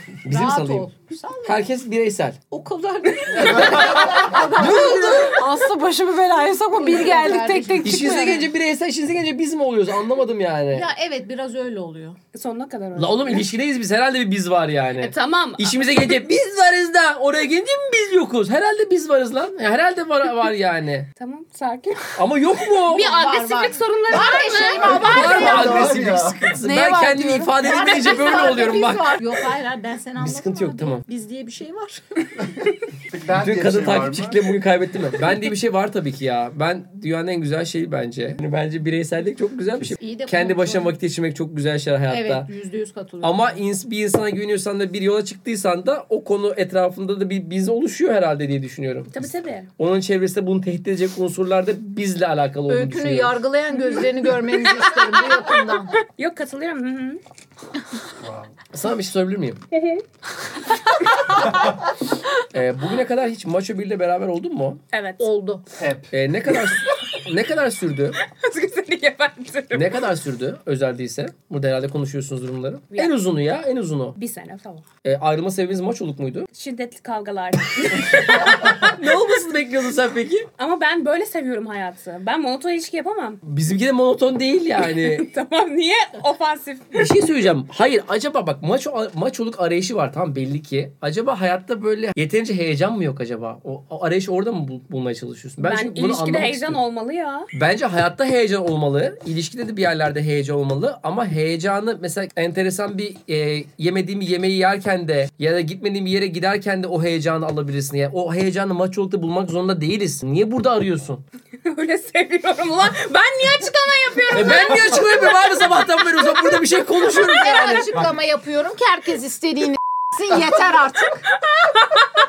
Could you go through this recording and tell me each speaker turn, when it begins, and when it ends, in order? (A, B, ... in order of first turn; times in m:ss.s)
0:00.2-0:00.9 A
0:00.3-0:01.7 B
0:01.4-0:02.4 A
0:02.5-0:05.4 B
0:04.5-0:08.5 C
0:04.6-0:05.4 A
0:06.7-0:08.4 B
0:07.8-0:10.9 A
0:10.7-0:12.2 B
0:12.3-0:13.4 D
0:13.0-0:21.1 A
0:15.0-0:15.8 D
0:21.2-0:22.2 D
0:22.1-0:23.1 A
0:22.8-0:25.3 D
0:22.9-0:26.0 B
0:24.8-0:26.5 E
0:24.9-0:29.2 A
0:26.6-0:27.9 C
0:27.6-0:32.3 B
0:30.2-0:31.0 A
0:33.1-0:34.5 E
0:33.3-0:42.5 A
0:39.9-0:41.0 B
0:42.1-0:43.6 B
0:43.2-0:49.1 A
0:49.1-0:49.7 D
0:49.8-0:53.4 A
0:52.7-0:56.0 B
0:53.7-0:54.1 D
0:56.0-0:57.2 D
0:58.2-0:58.5 E
0:58.7-0:59.6 A
0:59.7-1:00.0 D
1:02.5-1:04.8 A
1:04.9-1:05.2 D
1:05.2-1:05.6 B
1:05.7-1:06.1 E
1:06.1-1:08.2 A
1:08.2-1:10.1 D
1:09.7-1:14.2 A
1:14.2-1:14.8 D
1:15.0-1:16.5 A
1:16.5-1:19.0 D
1:17.9-1:20.5 A
1:20.6-1:23.4 D
1:23.4-1:25.3 A
1:24.8-1:27.1 D
1:26.9-1:36.8 A
1:35.6-1:37.5 D
1:37.5-1:51.2 A
1:51.6-1:57.2 D
1:54.3-1:57.9 A
1:57.2-2:01.4 B
2:01.5-2:02.1 D